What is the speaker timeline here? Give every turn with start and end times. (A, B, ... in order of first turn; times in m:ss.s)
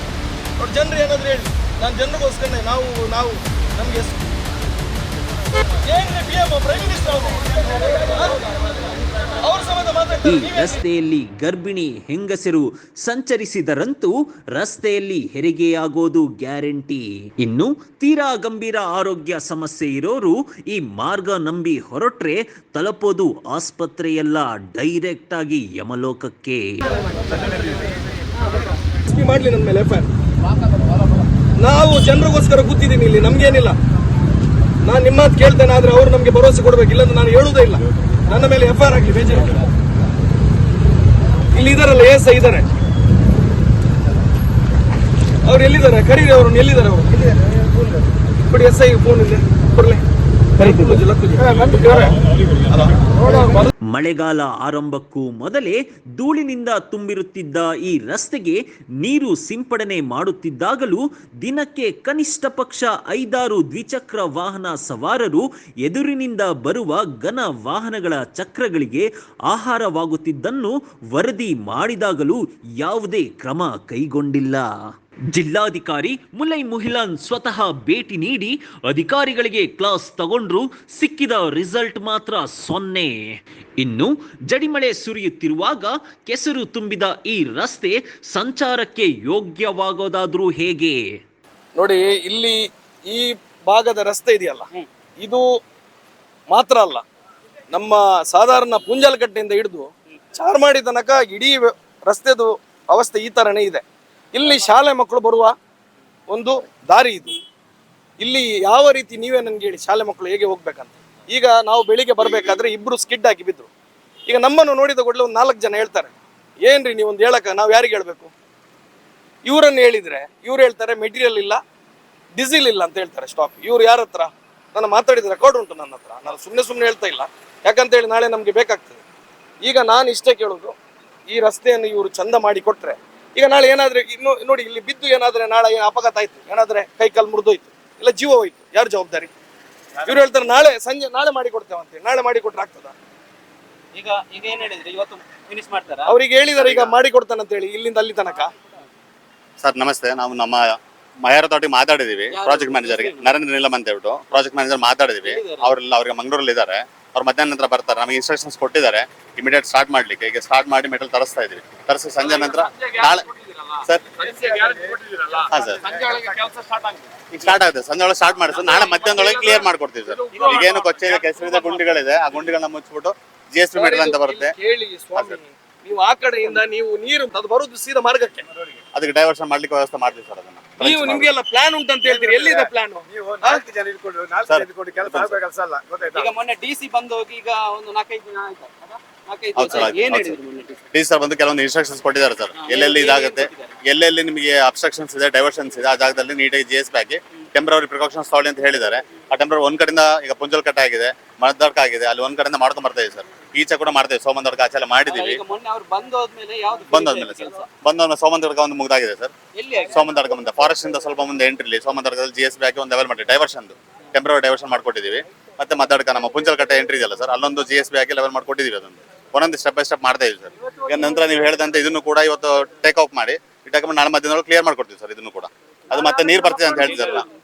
0:00.6-0:04.3 A
0:05.8-0:08.4 A
0:09.4-0:10.8 A
0:10.2-0:26.8 B
0:29.1-0:30.1 A
0:31.6-0:33.8 A
0:34.8-0:39.6 A
0:41.5-0:42.6 A
0:45.4-0:47.3 A
0:48.4-0:50.0 A
0:50.6-0:52.2 A
0:52.7-0:53.7 A
0:53.8-1:14.7 B
1:15.3-1:23.2 B
1:23.8-1:31.0 B
1:31.7-1:34.7 A
1:35.2-1:35.4 A
1:36.5-1:37.0 A
1:37.7-1:43.8 A
1:44.3-1:45.6 A
1:46.3-1:47.4 A
1:48.2-1:53.7 A
1:54.3-1:58.3 A
1:59.4-2:01.6 A
2:02.3-2:09.0 A
2:09.6-2:10.8 A
2:11.3-2:19.3 A
2:20.0-2:20.3 C
2:20.1-2:23.0 A
2:23.9-2:27.0 C
2:26.1-2:28.5 A
2:29.6-2:43.2 D
2:32.3-2:33.3 C
2:35.2-2:35.7 C
2:42.2-2:43.8 C
2:43.8-2:44.1 D
2:44.2-2:45.0 E
2:44.4-2:47.0 C
2:45.5-2:45.8 D
2:45.5-2:46.5 E
2:47.3-2:54.5 D
2:48.6-2:49.4 A
2:48.7-2:49.6 C
2:50.3-2:50.6 A
2:50.3-2:51.8 C
2:53.8-2:58.4 A
2:58.9-3:01.3 D
3:00.8-3:03.6 A
3:02.0-3:06.3 E
3:04.5-3:05.3 D
3:06.1-3:10.8 C
3:09.5-3:10.4 D
3:10.9-3:25.4 D
3:12.6-3:13.7 C
3:25.1-3:27.6 C
3:26.9-3:29.3 D
3:29.5-3:30.0 C
3:29.9-3:47.2 D
3:40.9-3:41.4 C
3:45.9-3:47.2 C